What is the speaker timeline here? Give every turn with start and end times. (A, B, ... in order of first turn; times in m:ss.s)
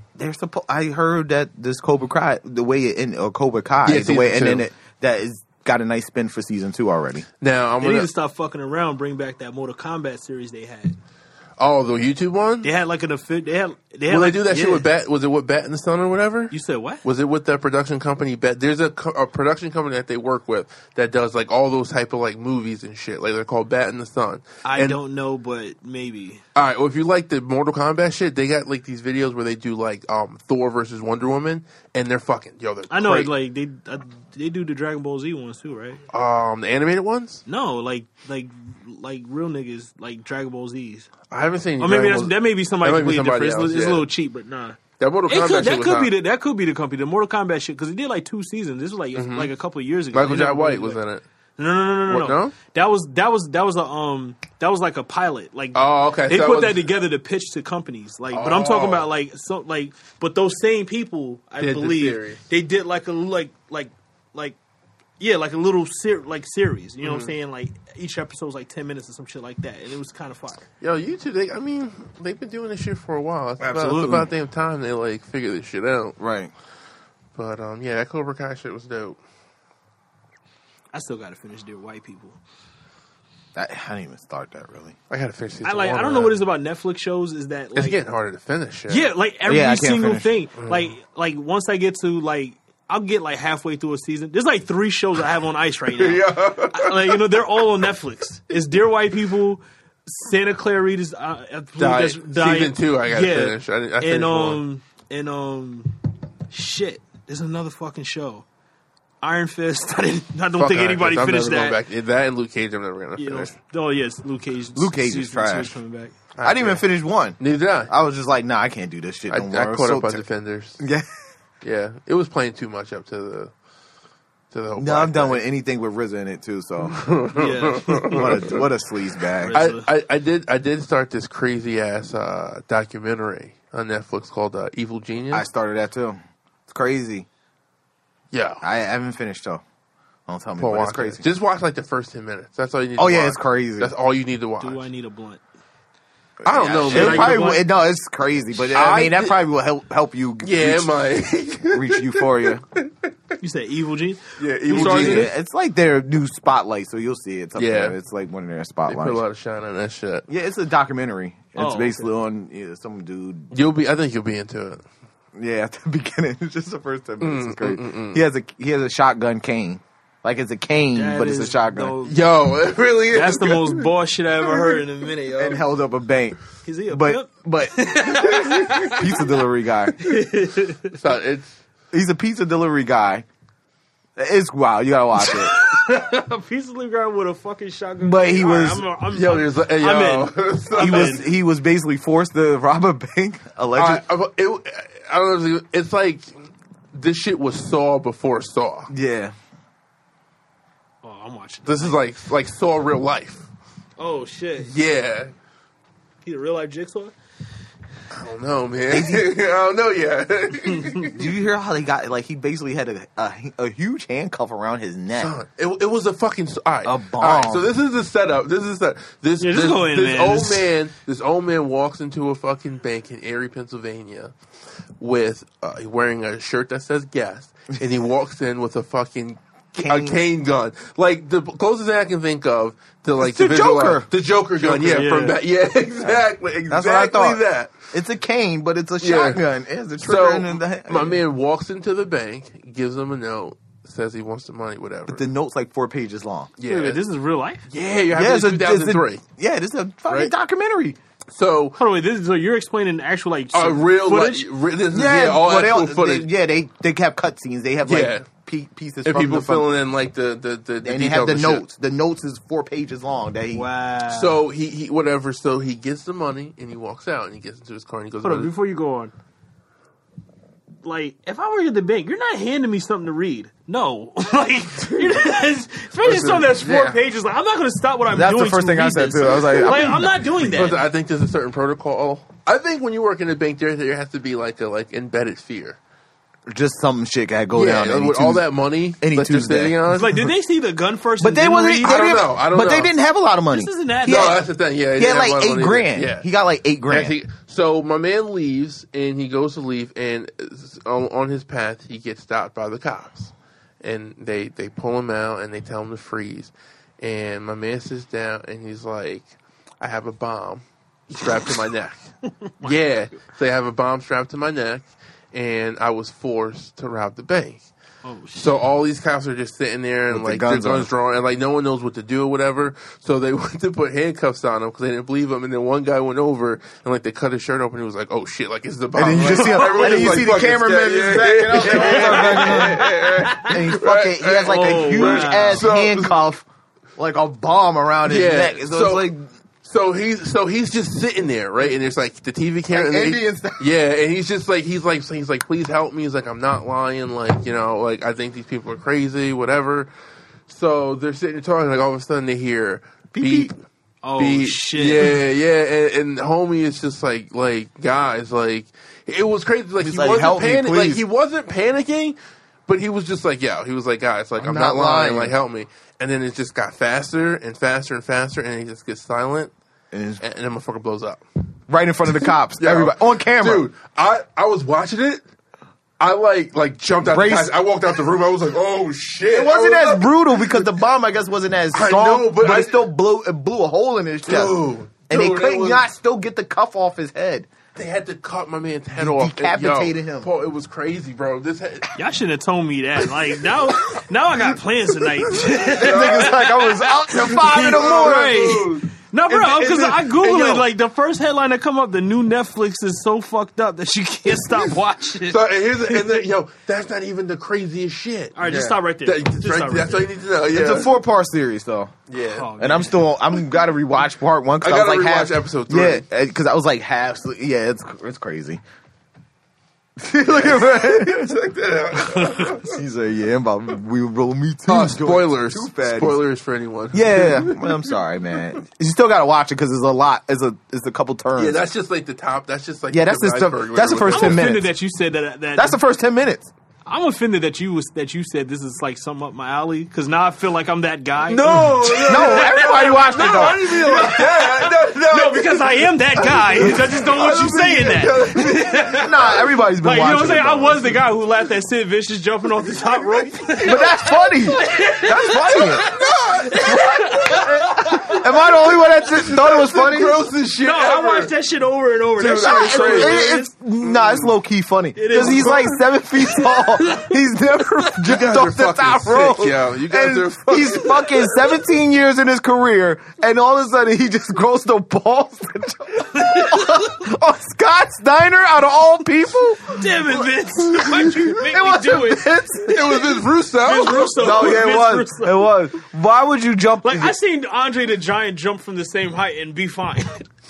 0:00.2-0:07.2 A
0:03.8-0:04.6 B
0:07.4-0:08.1 B
0:07.8-0:11.0 C
0:11.6-0:12.7 B
0:12.6-0:14.9 C
0:14.1-0:25.0 B
0:16.5-0:17.0 C
0:24.6-0:26.4 C
0:26.6-0:33.3 B
0:32.9-0:36.0 C
0:36.1-0:37.4 B
0:37.4-0:41.1 C
0:41.3-0:44.1 B
0:41.8-0:51.0 C
0:45.0-0:46.1 B
0:49.1-0:49.5 B
0:50.1-0:51.2 B
0:51.6-1:04.6 C
0:52.1-0:52.6 B
0:55.7-0:56.9 B
0:58.3-0:59.1 B
1:01.6-1:02.4 B
1:05.2-1:10.6 C
1:07.0-1:07.3 B
1:10.8-1:16.2 B
1:13.6-1:14.2 C
1:13.8-1:14.3 A
1:16.2-1:16.5 A
1:17.3-1:19.2 B
1:20.9-1:22.4 C
1:23.6-1:25.0 A
1:25.1-1:26.4 B
1:25.6-1:28.0 C
1:27.7-1:29.1 B
1:28.9-1:46.0 C
1:29.4-1:30.3 A
1:30.6-1:30.9 B
1:35.9-1:37.5 B
1:41.8-1:44.6 B
1:46.5-1:48.4 C
1:49.2-1:51.8 C
1:50.6-1:53.5 B
1:53.2-1:56.1 C
1:54.8-1:55.7 A
1:56.3-1:56.9 B
1:56.4-2:00.2 A
1:57.4-1:57.9 B
1:59.3-2:00.8 B
2:00.8-2:01.1 A
2:01.6-2:03.5 B
2:04.5-2:05.4 B
2:04.8-2:07.0 A
2:06.9-2:08.6 B
2:07.3-2:08.4 C
2:08.1-2:09.6 A
2:09.4-2:09.9 C
2:09.5-2:15.4 B
2:15.3-2:17.2 A
2:18.3-2:18.6 B
2:18.6-2:19.6 A
2:20.3-2:21.2 A
2:20.6-2:24.8 B
2:23.0-2:23.9 A
2:24.6-2:25.4 C
2:26.4-2:27.6 B
2:26.4-2:31.0 A
2:26.9-2:27.6 C
2:28.6-2:29.4 B
2:30.4-2:33.1 B
2:31.7-2:32.6 A
2:33.4-2:35.3 C
2:34.4-2:35.3 B
2:34.7-2:39.2 A
2:37.6-2:38.0 B
2:38.9-2:40.3 B
2:40.3-2:43.5 A
2:41.6-2:42.1 C
2:43.5-2:44.8 B
2:45.4-2:52.0 A
2:47.2-2:48.2 B
2:50.9-2:52.2 C
2:52.0-2:53.9 B
2:53.1-2:55.6 C
2:55.4-2:56.4 A
2:56.6-2:59.1 C
2:56.9-3:00.0 A
2:58.2-2:59.0 B
3:00.0-3:00.9 C
3:00.9-3:01.6 B
3:01.9-3:03.2 A
3:04.2-3:05.5 A
3:05.2-3:11.2 C
3:08.0-3:08.9 A
3:09.1-3:11.2 B
3:10.7-3:14.0 A
3:13.7-3:16.3 B
3:16.9-3:18.9 B
3:18.9-3:19.3 A
3:21.0-3:22.0 C
3:21.6-3:23.4 B
3:24.0-3:24.7 C
3:24.6-3:25.3 B
3:26.2-3:27.1 C
3:28.1-3:31.2 B
3:28.9-3:29.3 A
3:30.7-3:31.1 C
3:31.1-3:35.3 A
3:35.2-3:44.3 B
3:36.8-3:37.7 A
3:39.4-3:40.7 C
3:45.0-3:57.8 B
3:49.8-3:50.2 A
3:53.2-3:54.1 A
3:54.6-3:55.0 A
3:54.8-3:55.4 C
3:56.7-4:01.2 A
3:59.0-3:59.4 B
4:00.0-4:05.3 B
4:05.1-4:06.5 A
4:06.6-4:07.0 B
4:06.6-4:07.6 C
4:07.7-4:09.2 B
4:08.1-4:11.0 A
4:10.1-4:10.3 B
4:11.3-4:11.8 B
4:11.8-4:14.5 C
4:13.5-4:16.3 B
4:14.9-4:19.7 A
4:17.8-4:18.3 B
4:19.0-4:21.6 B
4:20.8-4:23.6 A
4:23.5-4:24.4 C
4:24.1-4:28.5 B
4:28.2-4:29.1 C
4:30.8-4:40.9 C
4:36.0-4:36.9 A
4:36.3-4:36.9 B
4:38.1-4:40.7 A
4:39.6-4:45.8 B
4:46.5-4:49.8 A
4:47.5-4:50.3 B
4:49.9-4:52.1 C
4:51.2-4:57.2 A
4:51.8-4:52.9 B
4:53.5-4:54.4 C
4:54.0-4:56.3 B
4:56.9-5:09.3 B
5:09.8-5:12.0 B
5:12.6-5:17.6 B
5:18.0-5:18.5 C
5:18.3-5:36.2 B
5:20.1-5:20.9 A
5:28.9-5:36.4 A
5:29.3-5:30.0 C
5:31.6-5:33.6 C
5:34.4-5:35.6 C
5:37.0-5:39.2 A
5:38.0-5:39.1 B
5:39.6-5:49.9 B
5:42.7-5:43.7 A
5:50.5-5:53.5 B
5:53.1-5:53.5 A
5:54.0-5:55.1 C
5:54.2-6:09.5 B
5:59.8-6:01.0 A
6:04.4-6:05.4 A
6:09.9-6:10.2 A
6:10.2-6:11.2 B
6:11.7-6:13.7 A
6:12.1-6:15.2 B
6:16.0-6:20.7 B
6:17.0-6:17.6 A
6:19.3-6:27.5 A
6:21.7-6:22.9 B
6:24.3-6:25.8 B
6:27.8-6:31.9 B
6:29.0-6:30.3 A
6:32.0-6:36.7 C
6:35.1-6:40.7 B
6:35.7-6:38.6 A
6:37.3-6:46.1 C
6:45.2-6:50.9 B
6:48.4-6:50.1 C
6:50.5-6:51.9 A
6:52.1-6:52.5 B
6:52.3-6:53.1 C
6:52.6-6:58.6 A
6:54.6-6:56.0 B
7:00.0-7:01.3 A
7:00.2-7:02.8 B
7:02.0-7:06.2 A
7:04.7-7:08.4 B
7:06.9-7:11.6 A
7:11.3-7:14.5 B
7:12.9-7:14.7 A
7:14.1-7:15.8 C
7:15.6-7:16.5 A
7:16.9-7:38.2 C
7:21.3-7:29.1 B
7:22.0-7:24.1 A
7:28.9-7:30.9 A
7:33.1-7:33.9 B
7:33.6-7:35.9 A
7:35.4-7:37.5 B
7:36.6-7:40.2 A
7:39.0-7:41.3 B
7:40.6-7:43.5 C
7:42.2-7:44.4 B
7:42.3-8:03.2 A
7:45.0-7:47.1 C
7:48.0-7:51.3 B
7:56.1-7:56.9 C
7:59.7-8:02.2 C
8:02.6-8:04.6 B
8:03.6-8:05.5 C
8:04.2-8:07.2 A
8:06.8-8:10.3 C